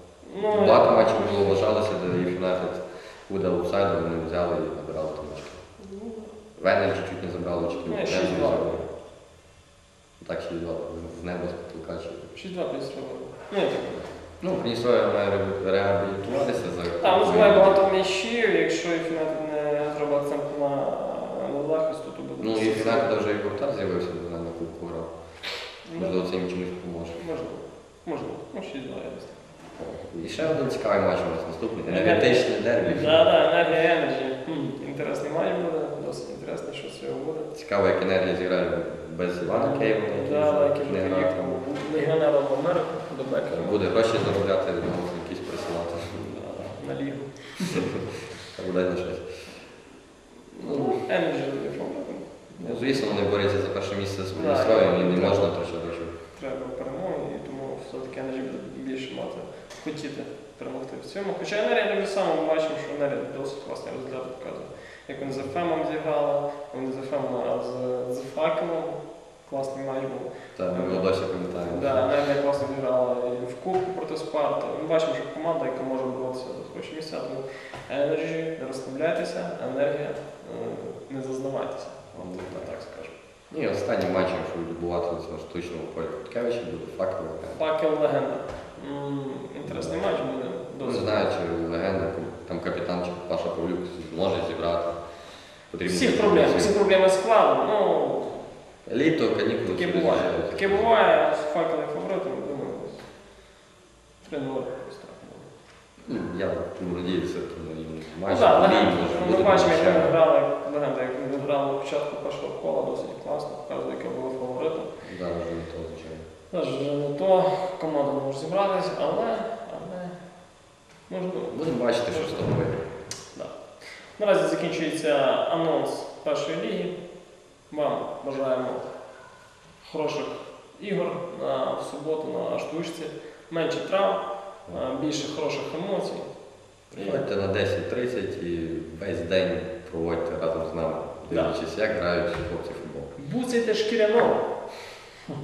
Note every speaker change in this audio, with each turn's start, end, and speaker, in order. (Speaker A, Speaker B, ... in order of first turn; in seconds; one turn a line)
Speaker A: 0.2-1.6
Speaker B: 0.5-5.6
Speaker A: 5.8-6.3
Speaker B: 6.6-8.8
Speaker A: 7.8-8.8
Speaker B: 10.2-12.3
Speaker A: 12.3-14.0
Speaker B: 14.4-17.8
Speaker A: 17.0-23.1
Speaker B: 22.4-25.1
Speaker A: 25.8-26.2
Speaker B: 25.9-27.2
Speaker A: 27.1-29.4
Speaker B: 29.8-33.2
Speaker A: 31.9-37.5
Speaker B: 37.5-41.6
Speaker A: 39.5-43.8
Speaker B: 43.5-46.2
Speaker A: 46.1-47.9
Speaker B: 47.7-49.4
Speaker A: 50.5-53.0
Speaker B: 50.6-51.0
Speaker B: 52.6-56.1
Speaker A: 54.3-55.5
Speaker A: 56.3-71.1
Speaker B: 70.5-72.1
Speaker A: 71.6-82.9
Speaker B: 82.1-87.6
Speaker A: 87.5-91.3
Speaker B: 89.6-90.0
Speaker B: 90.8-95.0
Speaker B: 95.7-96.8
Speaker A: 95.8-98.5
Speaker B: 98.8-100.9
Speaker A: 99.7-103.0
Speaker A: 104.2-105.5
Speaker B: 106.0-110.2
Speaker A: 108.2-114.9
Speaker B: 115.0-116.2
Speaker A: 116.5-120.2
Speaker A: 121.1-122.5
Speaker B: 121.5-122.8
Speaker A: 124.2-126.9
Speaker A: 127.7-128.8
Speaker A: 129.8-136.3
Speaker A: 136.9-137.2
Speaker B: 136.9-143.1
Speaker A: 141.3-141.6
Speaker A: 143.2-144.4